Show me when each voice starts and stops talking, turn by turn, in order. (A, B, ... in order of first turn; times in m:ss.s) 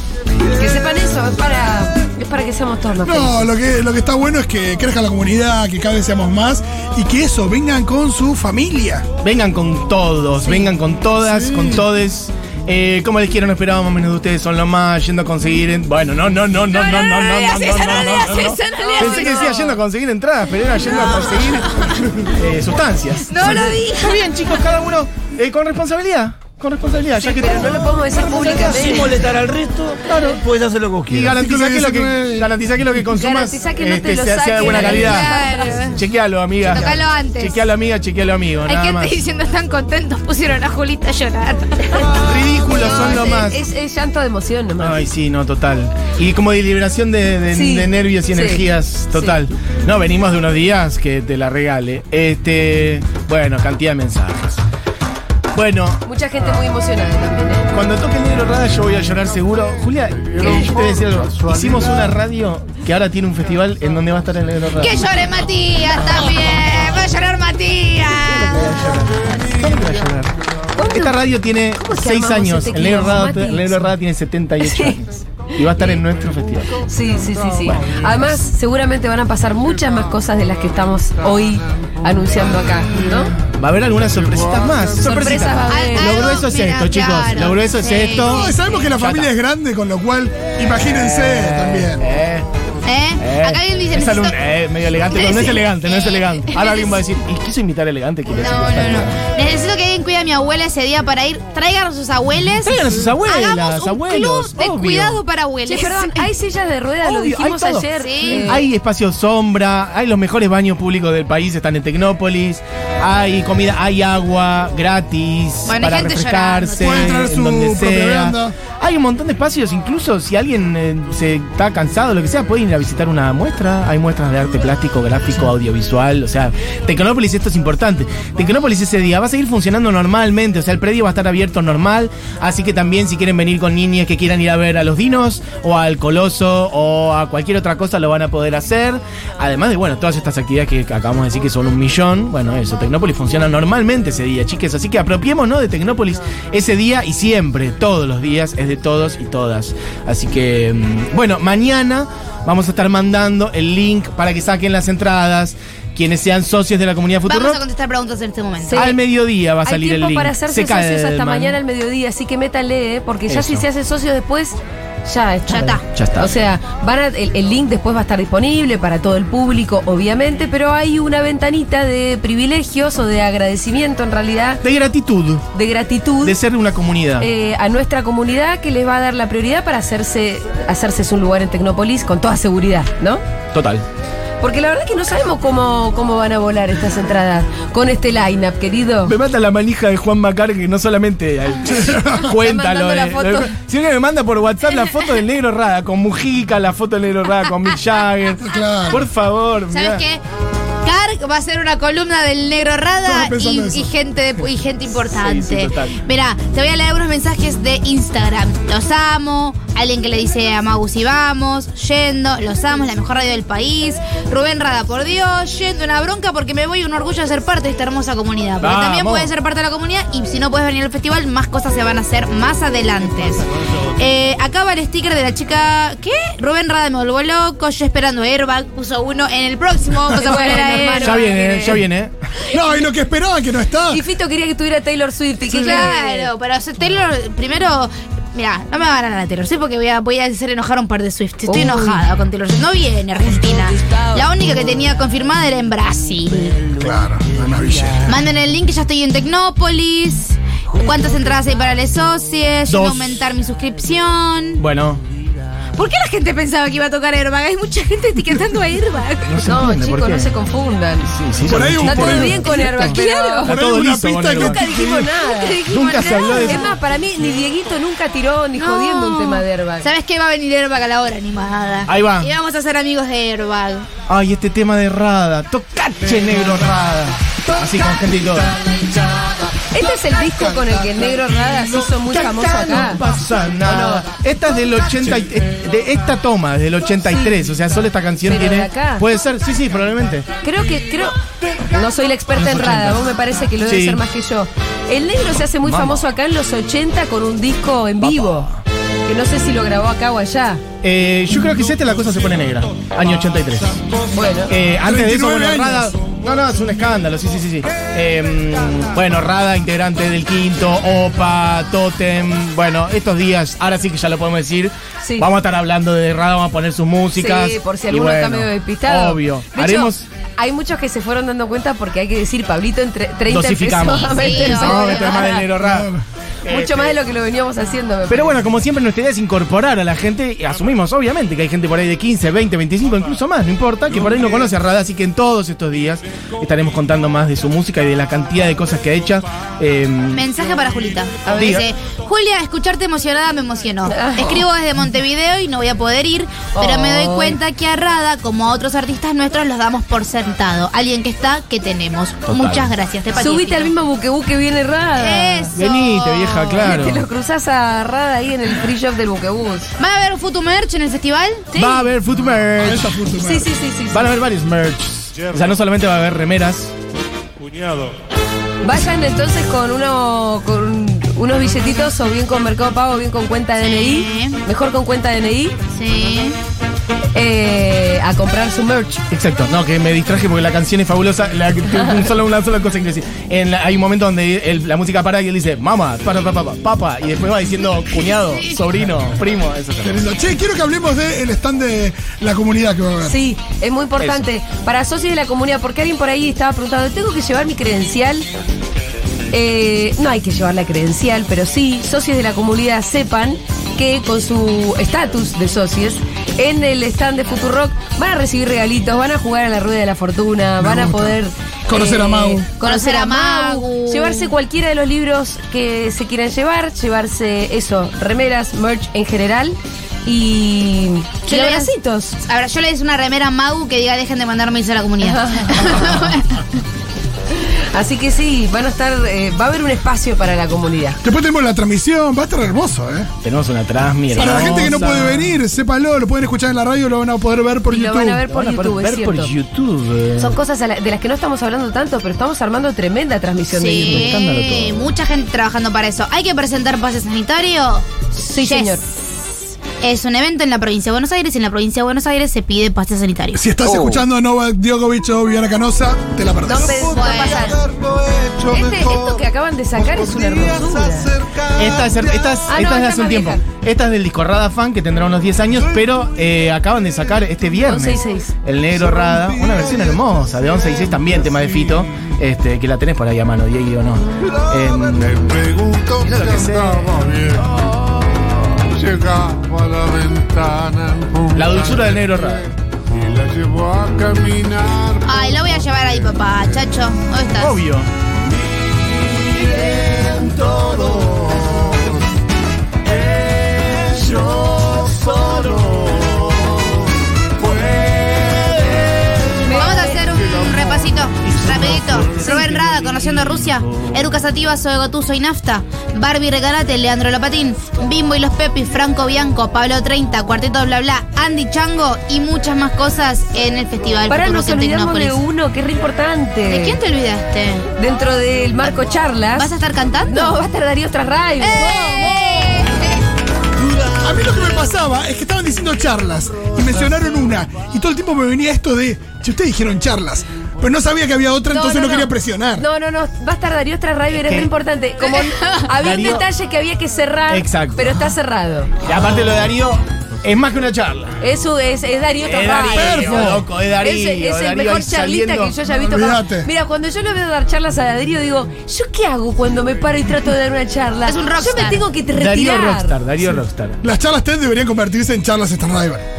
0:00.4-0:03.5 A
0:03.0-0:09.1 B
0:09.2-0:28.8 C
0:10.4-0:10.7 A
0:11.2-0:11.8 B
0:16.7-0:19.5 D
0:18.6-0:19.8 A
0:20.8-0:22.2 D
0:23.3-0:24.5 D
0:27.2-0:29.1 A
0:28.2-0:31.4 E
0:30.0-0:30.4 C
0:31.1-0:35.4 C
0:31.4-0:32.5 B
0:33.1-0:35.9 A
0:34.6-0:36.0 D
0:35.9-0:39.2 C
0:36.6-0:37.6 D
0:38.7-0:42.2 D
0:42.1-0:43.6 C
0:42.6-0:45.0 A
0:44.8-0:54.6 C
0:47.5-0:49.4 A
0:55.5-0:56.0 C
0:56.0-0:57.7 A
0:57.7-1:05.0 C
0:59.6-1:02.2 F
1:04.8-1:08.7 D
1:06.2-1:07.1 F
1:08.2-1:10.3 C
1:08.6-1:10.3 F
1:10.8-1:11.2 A
1:10.9-1:16.8 C
1:11.8-1:13.9 A
1:14.6-1:15.0 A
1:15.6-1:16.0 A
1:16.4-1:18.4 F
1:16.8-1:23.3 A
1:19.6-1:25.4 F
1:23.5-1:29.3 C
1:25.0-1:26.3 A
1:25.7-1:28.8 D
1:28.2-1:32.1 B
1:30.8-1:32.5 C
1:32.8-1:34.4 D
1:33.2-1:39.2 C
1:35.1-1:37.0 D
1:38.3-1:46.3 D
1:42.6-1:45.2 C
1:45.7-1:48.7 A
1:47.0-2:37.6 C
1:48.0-1:48.5 D
1:55.7-1:57.2 D
1:56.8-1:58.6 B
2:37.2-2:39.0 D
2:38.6-2:39.0 A
2:38.8-2:41.6 C
2:39.6-2:54.6 A
2:43.3-2:43.7 C
2:45.5-2:45.8 D
2:45.9-2:46.4 C
2:54.6-2:55.5 C
2:55.5-2:56.4 A
2:56.2-2:57.3 C
2:57.2-3:03.2 A
3:03.5-3:03.8 C
3:04.4-3:09.2 A
3:09.0-3:20.0 C
3:11.7-3:12.3 B
3:12.2-3:13.5 A
3:18.4-3:19.1 B
3:19.7-3:20.2 D
3:20.8-3:51.8 D
3:23.0-3:23.9 B
3:25.1-3:26.0 C
3:38.6-3:39.3 C
3:50.1-3:51.8 A
3:51.0-3:52.1 C
3:52.5-3:54.0 B
3:53.9-3:56.3 A
3:55.5-4:06.6 D
4:01.5-4:02.0 A
4:06.7-4:08.2 B
4:08.0-4:14.6 D
4:12.7-4:13.2 C
4:14.6-4:15.0 C
4:15.8-4:19.4 D
4:19.3-4:20.4 C
4:19.4-4:21.2 A
4:21.1-4:24.6 C
4:21.4-4:22.7 B
4:21.8-4:23.6 A
4:22.8-4:23.5 D
4:23.5-4:25.1 B
4:24.3-4:29.9 A
4:25.2-4:26.7 D
4:25.7-4:26.8 C
4:28.6-4:33.9 D
4:31.9-4:32.3 C
4:34.1-4:38.6 C
4:39.7-4:43.0 A
4:41.8-4:50.3 C
4:43.6-4:44.1 A
4:47.0-4:47.4 A
4:48.2-4:49.1 A
4:50.4-4:58.5 A
4:52.3-4:53.1 C
4:53.6-4:54.0 C
4:55.6-4:56.0 C
4:58.0-4:58.6 C
4:59.1-5:00.6 A
5:00.8-5:03.8 C
5:01.6-5:02.3 F
5:03.2-5:04.6 F
5:04.1-5:04.6 A
5:04.5-5:20.1 C
5:04.8-5:06.0 B
5:15.0-5:15.3 A
5:17.2-5:25.5 A
5:23.3-5:25.9 C
5:23.9-5:25.4 D
5:25.6-5:26.0 B
5:26.4-5:27.0 C
5:26.5-5:28.4 A
5:28.1-5:40.3 C
5:40.1-5:53.7 D
5:41.2-5:41.6 A
5:41.3-5:41.7 C
5:43.9-5:44.4 A
5:46.5-5:47.4 A
5:52.3-5:52.7 C
5:53.2-5:55.5 A
5:55.0-5:56.8 D
5:55.6-5:57.1 C
5:56.6-5:59.7 A
5:59.8-6:01.5 D
6:01.5-6:01.9 A
6:01.5-6:03.0 C
6:02.5-6:03.5 B
6:03.2-6:04.1 A
6:03.9-6:06.7 C
6:07.4-6:07.9 C
6:08.6-6:15.6 A
6:13.6-6:14.4 D
6:15.7-6:16.4 D
6:17.2-6:19.0 A
6:19.1-6:30.0 C
6:28.0-6:28.5 D
6:29.8-6:33.2 B
6:33.0-6:38.3 A
6:34.0-6:34.3 C
6:39.3-7:02.2 A
6:50.6-6:51.2 B
6:51.7-6:52.5 B
6:52.6-6:54.3 D
7:01.3-7:01.7 D
7:02.2-7:06.4 D
7:05.0-7:06.0 A
7:07.4-7:11.0 A
7:11.0-7:13.1 B
7:13.2-7:15.4 C
7:14.1-7:15.0 A
7:14.1-7:18.3 B
7:17.7-7:19.3 A
7:18.3-7:20.4 C
7:20.2-7:24.2 A
7:23.5-7:28.9 D
7:23.8-7:24.9 C
7:28.1-7:28.8 A
7:29.8-7:33.4 D
7:33.4-7:36.9 B
7:36.4-7:37.6 A
7:36.6-7:42.4 F
7:36.8-7:37.6 D
7:38.5-7:41.1 A
7:41.6-7:55.2 C
7:42.5-7:43.4 A
7:45.5-7:45.9 F
7:47.6-7:48.3 A
7:48.7-7:52.1 F
7:54.2-7:57.6 F
7:56.0-7:58.6 C
7:58.6-8:06.7 F
8:01.4-8:02.5 C
8:05.1-8:07.6 D
8:07.4-8:07.9 C
8:08.5-8:12.0 C
8:09.4-8:12.0 F
8:12.9-8:16.8 C
8:14.1-8:15.6 F
8:17.4-8:23.9 C
8:19.4-8:20.0 A
8:19.5-8:35.2 D
8:34.1-8:36.8 A
8:36.4-8:37.7 D
8:37.8-8:39.5 A
8:39.4-8:40.4 D
8:40.1-8:41.9 A
8:41.4-8:43.0 D
8:41.6-8:42.2 B
8:44.0-8:52.7 B
8:51.5-8:58.7 A
8:54.1-8:54.5 C
8:55.0-8:55.6 D
8:55.8-8:56.3 C
8:57.3-8:58.1 C
8:58.8-9:01.2 C
9:01.2-9:13.3 A
9:02.2-9:05.6 C
9:02.7-9:03.5 B
9:05.8-9:06.5 B
9:11.0-9:11.9 D
9:12.1-9:13.8 C
9:13.8-9:16.0 B